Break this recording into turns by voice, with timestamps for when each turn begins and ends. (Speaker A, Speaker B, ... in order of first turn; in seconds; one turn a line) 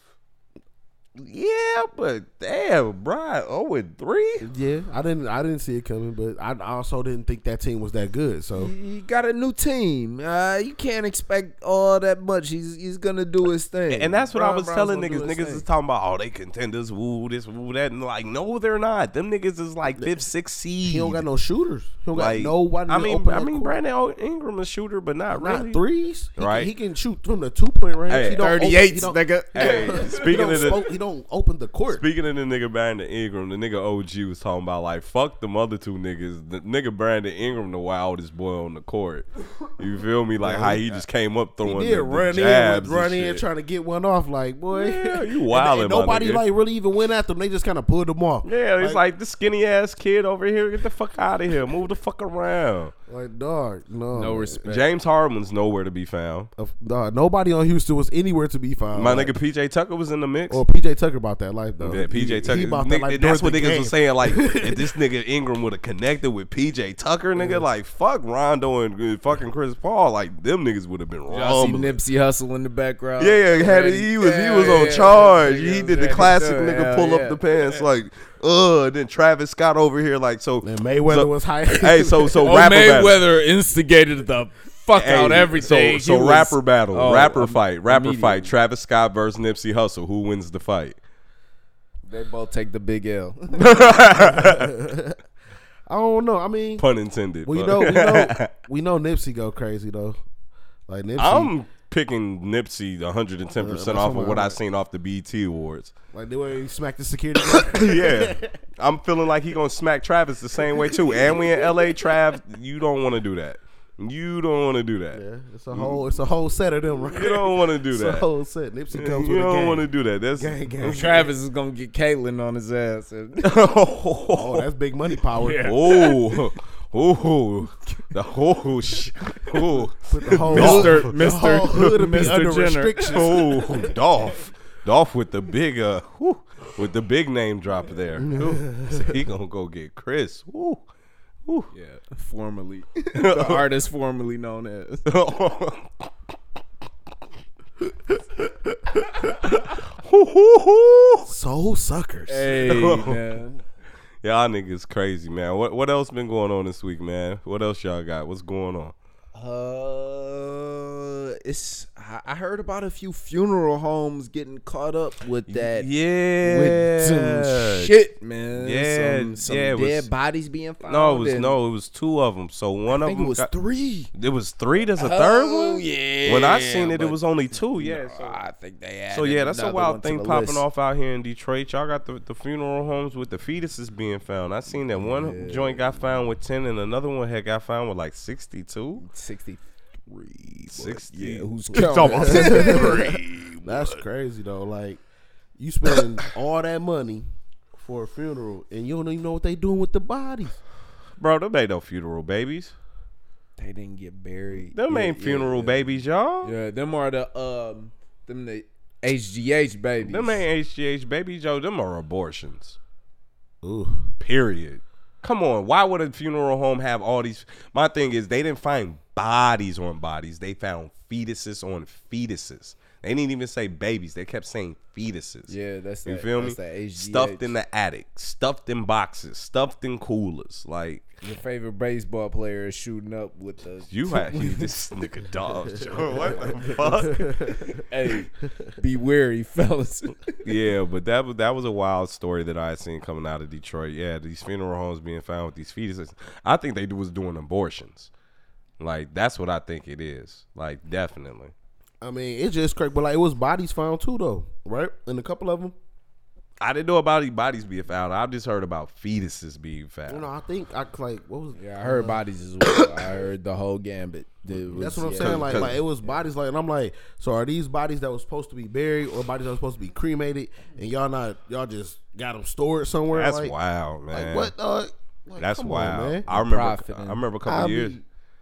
Speaker A: 1.2-4.5
Speaker B: 4.4-8.7
Speaker C: 8.6-15.6
Speaker A: 13.9-21.2
Speaker B: 20.9-23.8
Speaker A: 22.1-25.8
Speaker B: 25.3-32.0
Speaker A: 26.4-26.7
Speaker A: 28.1-28.6
Speaker C: 28.1-30.8
Speaker A: 29.5-30.8
Speaker A: 31.9-43.4
Speaker B: 40.4-41.0
Speaker B: 41.6-49.0
Speaker A: 44.7-46.4
Speaker A: 48.4-52.9
Speaker B: 53.1-54.6
Speaker C: 54.1-54.9
Speaker A: 54.6-56.5
Speaker B: 56.6-59.3
Speaker A: 59.0-60.6
Speaker B: 60.5-64.9
Speaker A: 61.8-72.0
Speaker B: 67.4-67.6
Speaker C: 71.3-77.8
Speaker A: 73.2-83.2
Speaker B: 80.6-82.5
Speaker C: 82.4-88.5
Speaker A: 84.9-91.0
Speaker C: 92.1-93.9
Speaker A: 93.5-94.7
Speaker B: 94.2-95.2
Speaker B: 95.9-96.8
Speaker A: 96.8-98.5
Speaker B: 97.4-100.2
Speaker B: 100.9-101.5
Speaker A: 101.2-105.9
Speaker B: 103.6-104.6
Speaker B: 106.1-108.6
Speaker A: 107.5-116.0
Speaker B: 110.8-112.0
Speaker B: 115.1-121.3
Speaker A: 117.1-118.3
Speaker A: 118.9-120.5
Speaker C: 120.8-123.6
Speaker A: 123.4-124.7
Speaker B: 124.4-125.7
Speaker C: 125.3-126.5
Speaker A: 125.6-131.1
Speaker B: 130.1-133.8
Speaker C: 130.4-133.8
Speaker A: 133.1-140.8
Speaker B: 138.2-139.1
Speaker C: 141.7-145.0
Speaker A: 143.1-143.7
Speaker A: 145.1-146.1
Speaker B: 148.4-149.1
Speaker A: 149.4-151.3
Speaker B: 151.3-152.6
Speaker C: 152.3-153.6
Speaker A: 152.6-153.2
Speaker A: 154.2-158.9
Speaker C: 159.3-165.9
Speaker A: 165.5-167.9
Speaker C: 166.4-171.6
Speaker A: 168.5-170.1
Speaker A: 170.9-173.5
Speaker C: 172.9-174.1
Speaker A: 174.1-178.4
Speaker C: 174.9-180.6
Speaker A: 179.1-189.0
Speaker C: 184.9-186.2
Speaker C: 189.0-193.2
Speaker A: 190.6-194.0
Speaker B: 192.0-193.1
Speaker B: 193.6-195.0
Speaker B: 195.6-197.2
Speaker B: 197.8-200.6
Speaker A: 201.2-202.7
Speaker C: 203.6-210.4
Speaker A: 204.6-206.5
Speaker A: 210.0-212.8
Speaker B: 213.6-214.1
Speaker A: 214.2-225.5
Speaker C: 225.5-227.5
Speaker A: 226.1-231.1
Speaker C: 231.2-234.8
Speaker A: 233.9-237.3
Speaker C: 236.0-240.4
Speaker B: 237.1-237.7
Speaker A: 240.4-248.1
Speaker A: 248.8-251.5
Speaker B: 252.0-255.7
Speaker A: 256.6-260.2
Speaker B: 260.1-262.9
Speaker C: 261.6-265.8
Speaker B: 264.7-273.5
Speaker A: 265.2-265.8
Speaker A: 273.1-274.5
Speaker B: 274.1-276.2
Speaker A: 275.4-278.0
Speaker C: 276.3-277.2
Speaker B: 277.4-278.0